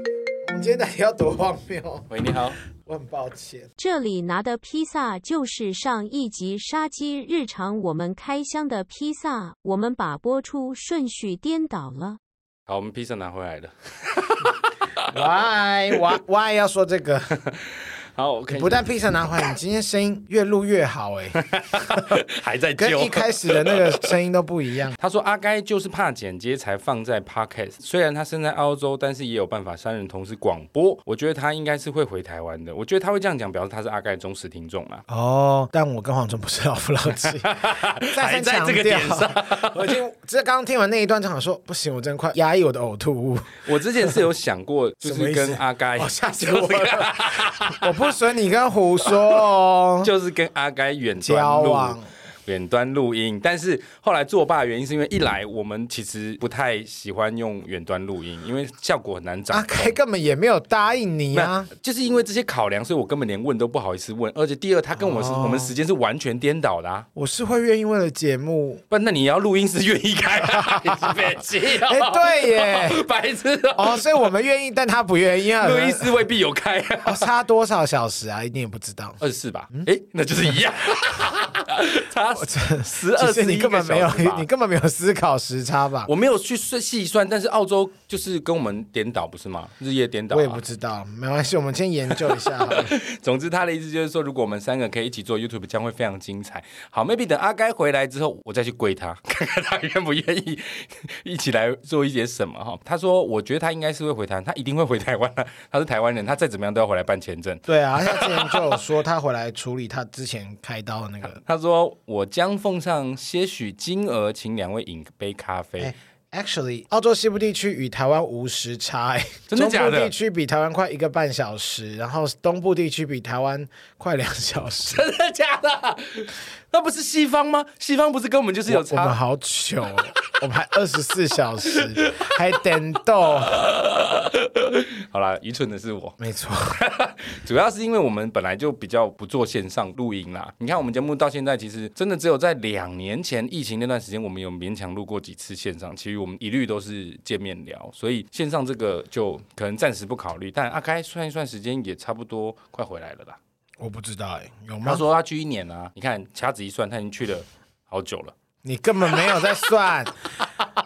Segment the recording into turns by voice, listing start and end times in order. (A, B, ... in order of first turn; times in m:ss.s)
0:00.4-0:02.1 A
0:02.1-0:02.6 B
0:02.8-0:03.7 A
0:03.8-0:12.2 C
0:12.7-0:15.1 B
0:15.1-0:17.3 A
0:18.2-0:18.8 B
0:18.5-0:22.1 A
0:21.3-0:24.1 B
0:22.8-0:25.0 A
0:25.0-0:35.0 B
0:35.1-0:44.2 A
0:37.2-0:39.9 B
0:43.6-0:48.0 B
0:45.0-0:47.2 A
0:47.7-0:50.1 A
0:50.0-1:00.0 B
0:51.2-0:52.1 A
0:59.5-1:01.7 A
1:01.3-1:07.0 B
1:05.0-1:05.7 A
1:07.1-1:08.8 A
1:08.9-1:14.2 B
1:10.5-1:10.9 A
1:11.7-1:13.0 A
1:13.8-1:16.1 A
1:15.6-1:17.3 B
1:17.0-1:19.2 A
1:19.2-1:24.5 B
1:22.3-1:26.1 A
1:26.1-1:30.6 B
1:30.3-1:33.0 A
1:32.6-1:48.7 B
1:47.7-1:51.4 A
1:51.3-1:55.9 B
1:55.8-2:05.0 A
1:59.5-2:00.1 B
2:04.8-2:09.2 B
2:08.7-2:13.6 A
2:11.7-2:12.6 B
2:13.5-2:16.2 B
2:16.2-2:16.8 A
2:16.7-2:33.4 B
2:33.8-2:35.0 A
2:34.8-2:38.3 B
2:38.6-2:40.1 A